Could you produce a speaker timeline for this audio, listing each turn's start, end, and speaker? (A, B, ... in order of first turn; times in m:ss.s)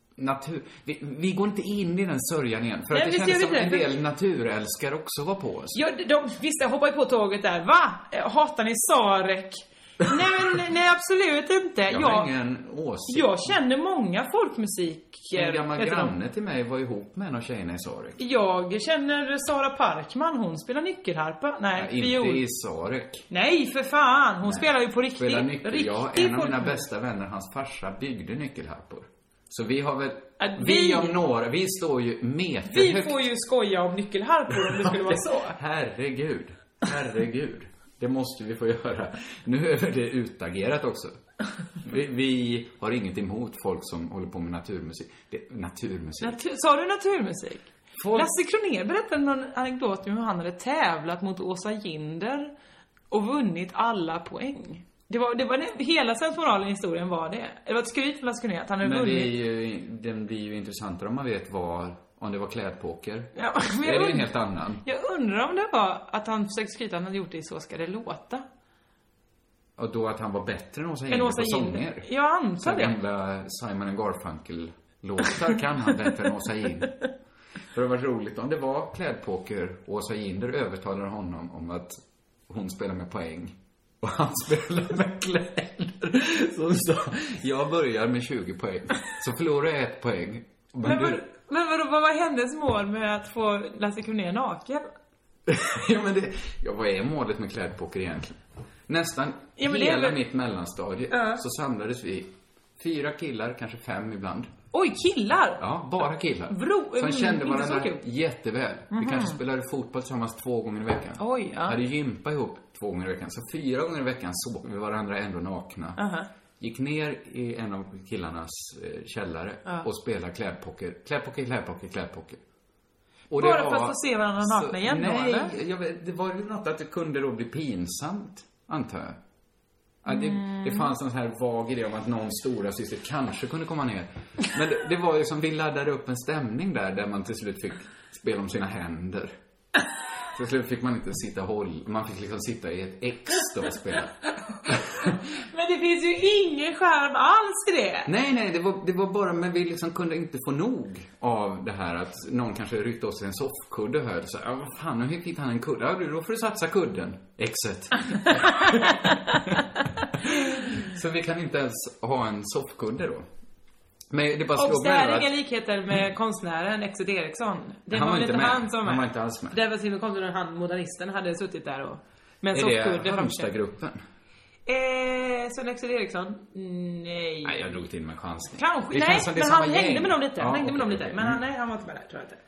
0:00.2-0:05.8 A
0:02.9-0:03.9 B
0:05.7-0:12.3 B
0:11.9-0:13.5 A
0:13.1-0:16.1 B
0:15.3-0:18.2 A
0:18.2-0:22.4 B
0:21.8-0:23.2 A
0:23.3-0:26.8 B
0:24.4-0:33.2 A
0:30.4-0:31.2 B
0:32.7-0:35.6 B
0:34.5-0:41.2 A
0:41.8-0:46.4 A
0:46.2-0:52.5 B
0:48.0-0:48.3 A
0:53.1-0:59.3 B
0:58.8-1:04.8 A
1:03.4-1:04.3 B
1:04.8-1:08.4 B
1:09.8-1:12.1 A
1:11.1-1:13.0 B
1:12.6-1:17.0 A
1:17.7-1:22.0 A
1:22.5-1:31.2 A
1:30.8-1:34.9 B
1:35.5-1:44.5 A
1:39.6-1:40.2 B
1:41.1-1:41.4 B
1:44.7-1:45.6 B
1:45.6-1:56.0 A
1:46.5-1:48.0 B
1:48.9-1:49.4 B
1:51.2-1:51.8 B
1:56.0-1:56.3 B
1:56.6-2:02.4 A
2:03.3-2:09.2 A
2:03.4-2:05.5 B
2:10.0-2:19.3 A
2:10.1-2:10.9 B
2:20.3-2:24.1 A
2:24.7-2:25.2 A
2:25.1-2:28.1 B
2:28.1-2:39.6 A
2:38.3-2:39.2 B
2:40.2-2:43.3 A
2:44.1-2:45.3 A
2:44.6-2:53.6 B
2:47.9-2:49.6 A
2:52.5-2:54.0 A
2:54.7-2:57.8 B
2:57.4-3:01.4 A
2:58.6-3:02.4 B